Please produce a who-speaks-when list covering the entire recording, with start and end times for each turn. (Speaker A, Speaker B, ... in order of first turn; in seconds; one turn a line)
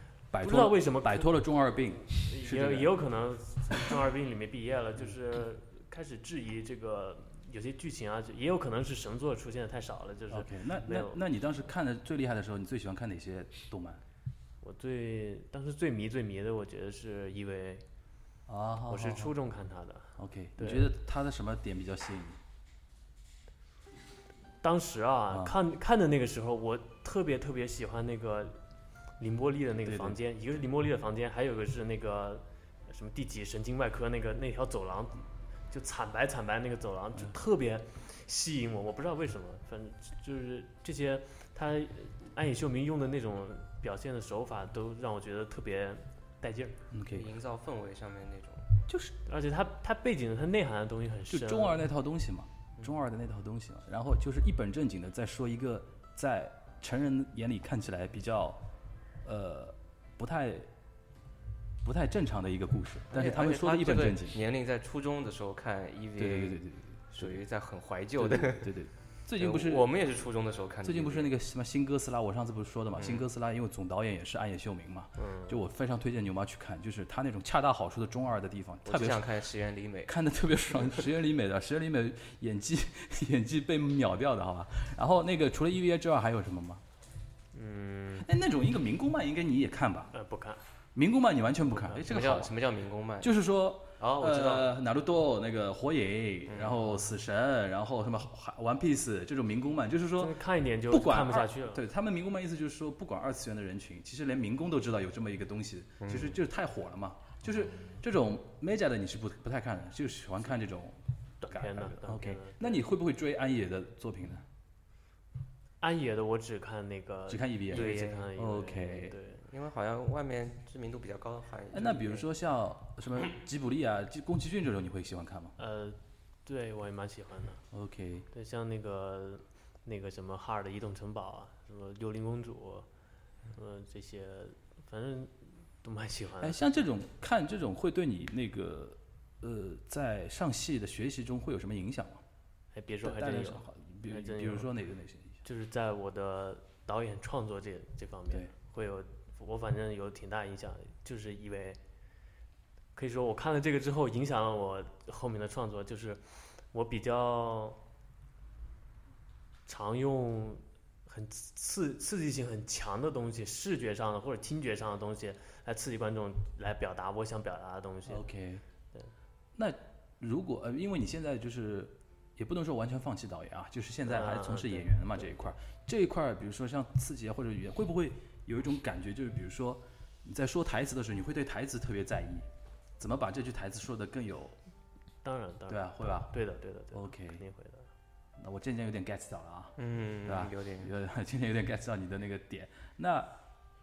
Speaker A: 0.3-3.0
Speaker B: 0.4-11.2
Speaker A: 10.3-14.0
Speaker B: 14.6-17.8
Speaker A: 18.5-19.3
Speaker B: 18.9-20.9
Speaker A: 20.2-22.4
Speaker B: 24.6-28.6
Speaker B: 29.2-46.8
Speaker A: 29.8-30.2
Speaker A: 46.9-47.3
Speaker C: 47.1-48.7
Speaker A: 48.9-49.1
Speaker B: 49.2-51.8
Speaker A: 51.3-58.6
Speaker A: 59.2-60.7
Speaker A: 61.8-64.4
Speaker C: 63.1-66.6
Speaker A: 66.2-67.4
Speaker C: 67.1-68.7
Speaker A: 68.2-69.9
Speaker C: 69.4-71.3
Speaker A: 70.8-79.3
Speaker C: 73.0-73.2
Speaker B: 75.2-75.6
Speaker C: 78.8-80.1
Speaker A: 80.0-86.8
Speaker B: 87.5-88.3
Speaker A: 88.2-90.1
Speaker B: 90.1-90.6
Speaker A: 90.9-92.6
Speaker B: 91.7-92.0
Speaker C: 92.0-93.3
Speaker A: 93.2-114.4
Speaker C: 94.0-94.7
Speaker C: 96.5-97.0
Speaker B: 100.2-101.8
Speaker C: 106.0-106.4
Speaker B: 111.4-112.8
Speaker B: 115.8-119.4
Speaker A: 117.3-119.1
Speaker C: 117.7-118.3
Speaker C: 119.4-122.3
Speaker A: 121.7-125.5
Speaker B: 125.6-127.6
Speaker A: 127.7-128.3
Speaker B: 128.3-132.9
Speaker B: 133.5-136.7
Speaker A: 136.4-142.2
Speaker B: 142.7-144.7
Speaker A: 143.0-145.4
Speaker B: 145.4-151.8
Speaker B: 152.9-157.8
Speaker B: 159.7-168.2
Speaker A: 168.1-168.6
Speaker A: 169.6-182.5
Speaker B: 174.1-175.4
Speaker A: 183.0-184.6
Speaker B: 185.2-187.9
Speaker A: 185.7-186.3
Speaker A: 186.9-187.4
Speaker A: 188.4-193.3
Speaker C: 189.8-190.9